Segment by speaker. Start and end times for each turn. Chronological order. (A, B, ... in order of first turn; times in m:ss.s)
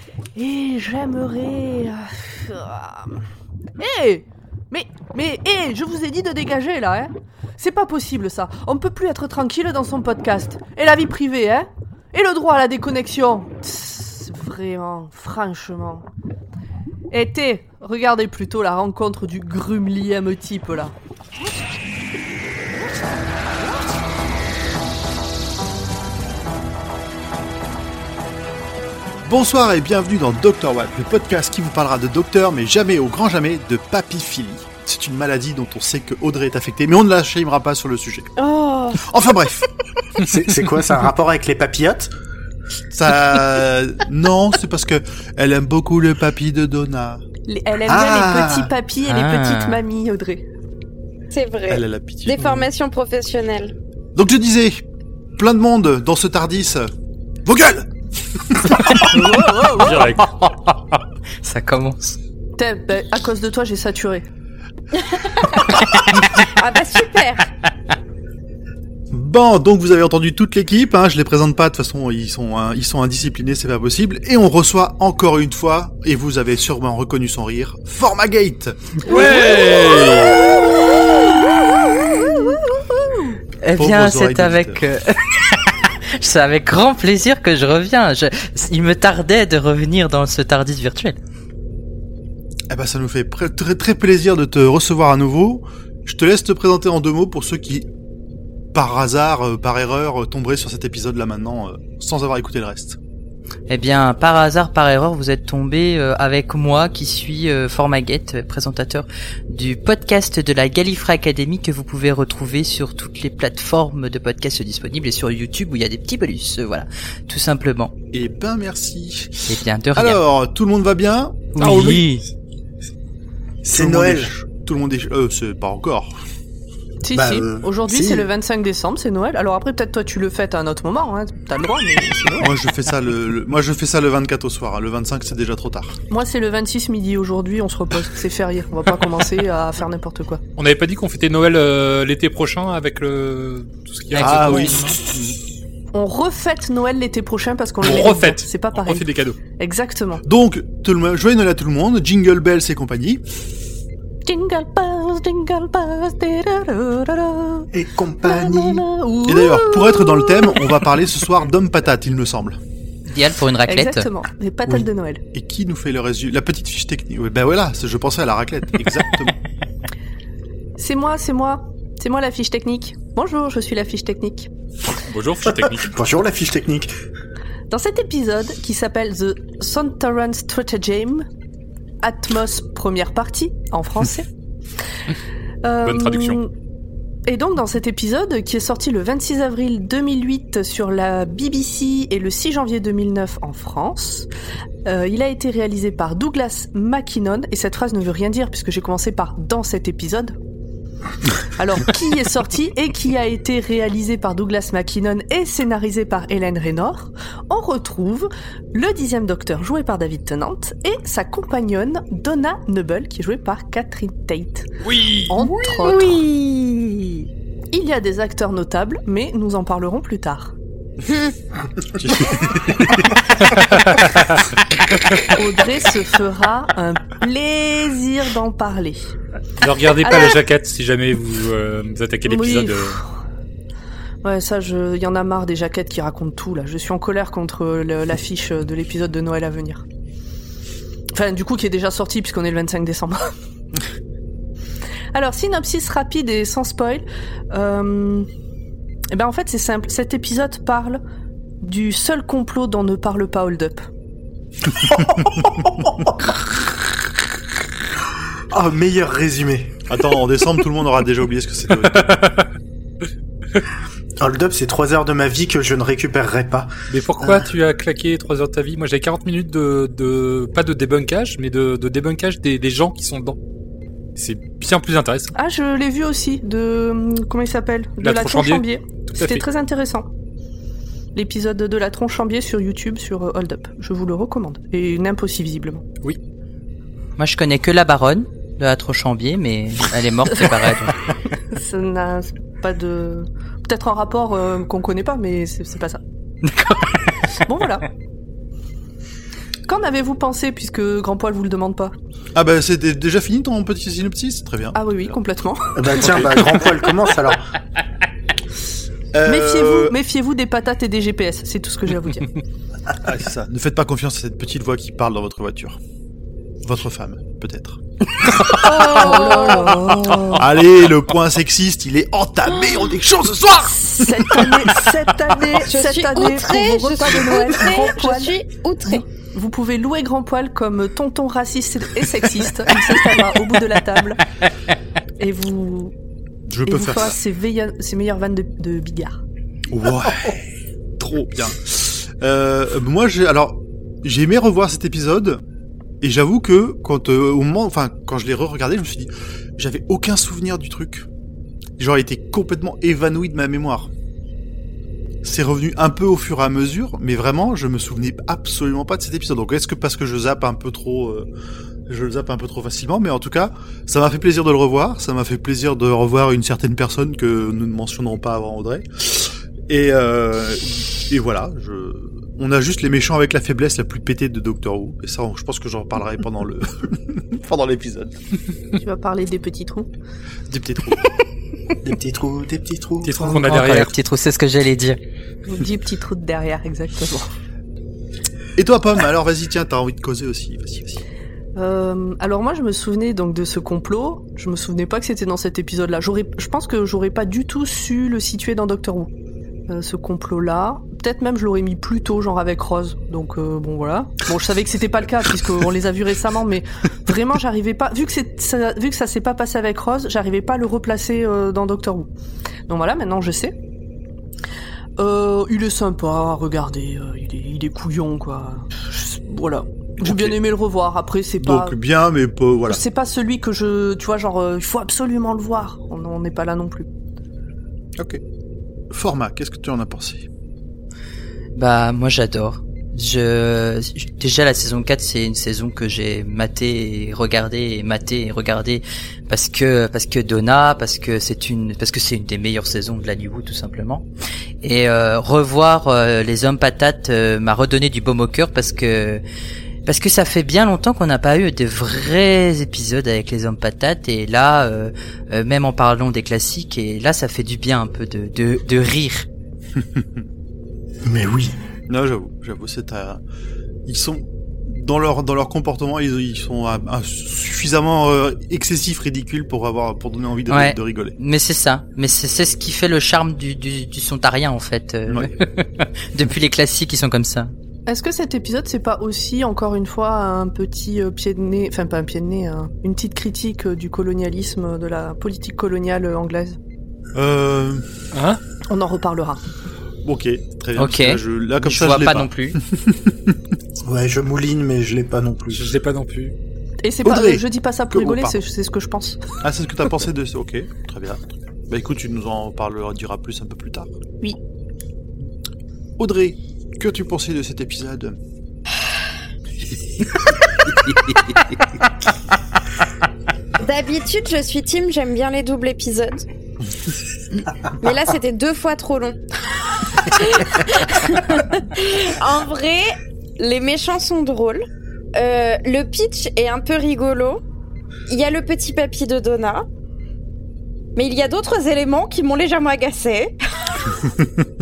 0:00.4-0:03.2 A
0:03.8-0:16.1 A
0:17.1-0:21.0 A
0:29.2-0:38.3 B
0:38.4-0:39.0 C
0:39.0-0:39.7 B
0:40.2-0:42.1 D
0:42.9-0:47.2 B
0:47.5-0:50.4 A
0:47.8-0:48.7 D
0:49.1-0:49.8 E
0:51.3-0:53.7 C
0:51.7-0:52.7 B
0:54.2-0:54.8 B
0:55.4-0:56.9 B
0:57.4-0:59.1 B
0:59.0-1:00.1 A
0:59.8-1:01.0 F
1:01.4-1:02.2 E
1:02.6-1:04.3 A
1:04.9-1:07.5 C
1:09.1-1:19.9 B
1:19.1-1:20.4 F
1:19.1-1:20.4 E
1:22.1-1:23.3 A
1:23.6-1:31.2 E
1:23.8-1:24.8 B
1:32.7-1:37.9 B
1:38.7-1:43.0 B
1:43.7-1:57.9 E
1:58.1-2:01.9 B
1:59.5-2:00.2 E
2:01.6-2:02.2 E
2:01.6-2:02.1 F
2:03.6-2:04.3 D
2:03.7-2:06.1 B
2:07.0-2:12.5 A
2:07.1-2:08.3 D
2:12.4-2:16.0 B
2:16.1-2:20.4 A
2:20.6-2:25.0 F
2:24.1-2:24.9 E
2:24.2-2:25.4 B
2:25.9-2:29.1 A
2:27.8-2:29.4 F
2:29.6-2:30.2 A
2:30.2-2:33.2 B
2:34.2-2:37.7 A
2:37.7-2:38.8 D
2:38.2-2:40.7 A
2:39.2-2:42.6 B
2:43.1-2:44.1 E
2:43.7-2:45.2 A
2:45.3-2:49.4 B
2:50.8-2:54.5 A
2:54.9-2:55.9 F
2:55.7-2:56.9 D
2:57.7-3:01.3 A
3:02.0-3:04.3 A
3:05.6-3:06.5 A
3:05.8-3:06.4 F
3:07.3-3:14.3 A
3:14.8-3:20.4 A
3:21.6-3:34.7 A
3:34.8-3:35.5 F
3:35.3-3:36.2 A
3:36.3-3:36.9 E
3:37.7-3:40.5 A
3:42.0-3:43.0 D
3:43.5-3:44.3 F
3:45.3-3:49.1 A
3:49.6-3:53.0 F
3:50.0-3:50.4 A
3:52.2-3:53.2 A
3:54.2-3:59.8 A
4:01.1-4:03.3 A
4:05.1-4:08.3 A
4:09.1-4:11.0 A
4:11.6-4:13.9 A
4:14.8-4:16.3 D
4:18.5-4:19.8 D
4:19.9-4:22.4 B
4:21.8-4:22.4 F
4:24.2-4:27.4 D
4:26.9-4:33.4 F
4:34.2-4:35.3 F
4:35.4-4:40.1 A
4:38.0-4:39.4 F
4:41.1-4:45.8 A
4:47.2-4:51.0 E
4:51.5-4:56.0 A
4:56.4-4:57.4 E
4:57.4-4:57.9 A
4:59.7-5:01.9 A
5:02.4-5:05.1 B
5:04.7-5:06.0 A
5:05.8-5:07.5 D
5:05.9-5:06.5 B
5:09.1-5:10.0 B
5:09.2-5:12.4 A
5:13.0-5:15.8 B
5:16.6-5:17.8 B
5:18.5-5:19.9 C
5:18.6-5:20.4 A
5:20.3-5:24.9 B
5:23.7-5:28.3 A
5:25.6-5:29.0 C
5:28.9-5:34.2 A
5:35.2-5:35.9 A
5:36.5-5:37.2 B
5:36.7-5:39.2 A
5:39.7-5:40.4 B
5:41.0-5:45.4 B
5:46.0-5:51.1 B
5:51.8-5:53.9 B
5:55.2-6:01.3 B
6:01.9-6:18.2 B
6:18.8-6:19.9 A
6:20.5-6:21.2 B
6:21.8-6:23.4 D
6:23.0-6:23.9 F
6:23.4-6:25.0 E
6:25.4-6:27.3 A
6:28.6-6:31.0 B
6:31.6-6:39.1 A
6:39.7-6:52.1 A
6:52.7-6:53.6 A
6:55.0-7:01.8 A
7:00.0-7:00.4 B
7:01.4-7:02.8 B
7:02.7-7:06.9 A
7:08.9-7:10.3 B
7:11.6-7:24.0 E
7:24.6-7:29.2 E
7:29.9-7:39.2 E
7:39.8-7:40.2 B
7:41.0-7:41.6 D
7:41.9-7:43.2 B
7:43.9-7:51.1 B
7:50.5-7:57.5 E
7:55.1-7:55.3 B
7:57.9-8:06.6 A
8:07.1-8:07.9 B
8:08.1-8:08.4 F
8:08.7-8:09.4 A
8:10.0-8:13.1 B
8:10.8-8:12.6 E
8:13.8-8:15.6 D
8:15.5-8:16.3 F
8:16.8-8:19.2 A
8:17.0-8:18.4 B
8:19.4-8:23.9 B
8:26.0-8:28.2 B
8:30.7-8:31.4 E
8:33.6-8:36.2 C
8:37.8-8:47.4 C
8:48.1-8:49.6 C
8:51.0-8:54.1 C